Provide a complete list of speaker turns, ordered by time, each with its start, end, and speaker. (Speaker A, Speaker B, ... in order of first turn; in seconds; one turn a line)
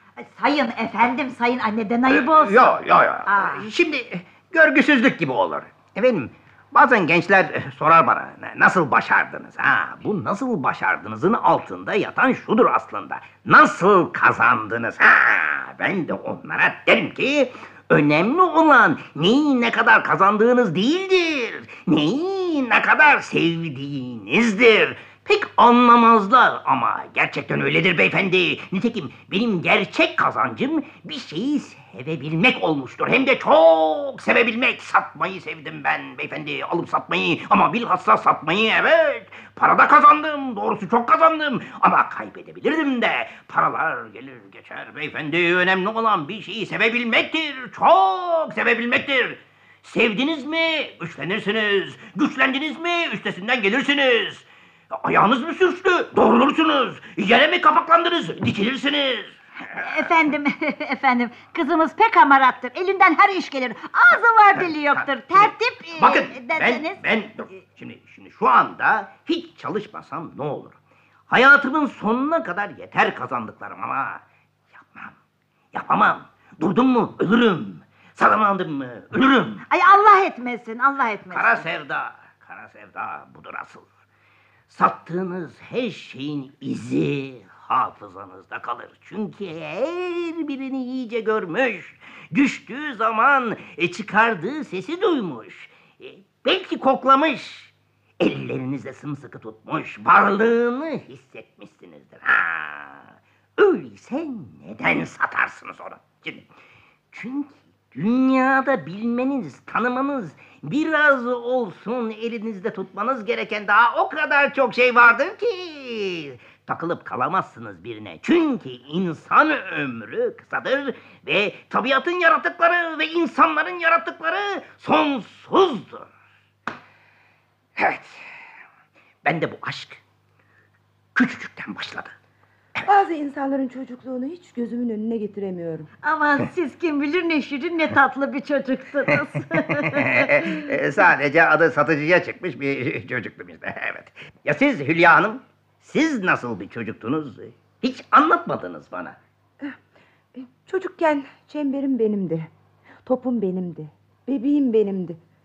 Speaker A: 0.2-2.7
Speaker B: 2.1-60.1
Speaker A: 3.3-3.7
Speaker A: 59.7-67.0
Speaker B: 64.6-70.8
Speaker B: 71.3-74.2
Speaker B: 74.8-75.1
Speaker B: 75.7-79.6
Speaker A: 79.7-81.6
Speaker B: 81.3-83.8
Speaker B: 84.7-106.5
Speaker B: 107.1-126.1
Speaker B: 127.8-128.3
Speaker B: 129.2-130.0
Speaker B: 131.1-132.1
Speaker C: 132.8-135.9
Speaker A: 136.0-140.7
Speaker B: 139.7-149.2
Speaker C: 150.3-152.5
Speaker C: 153.0-155.2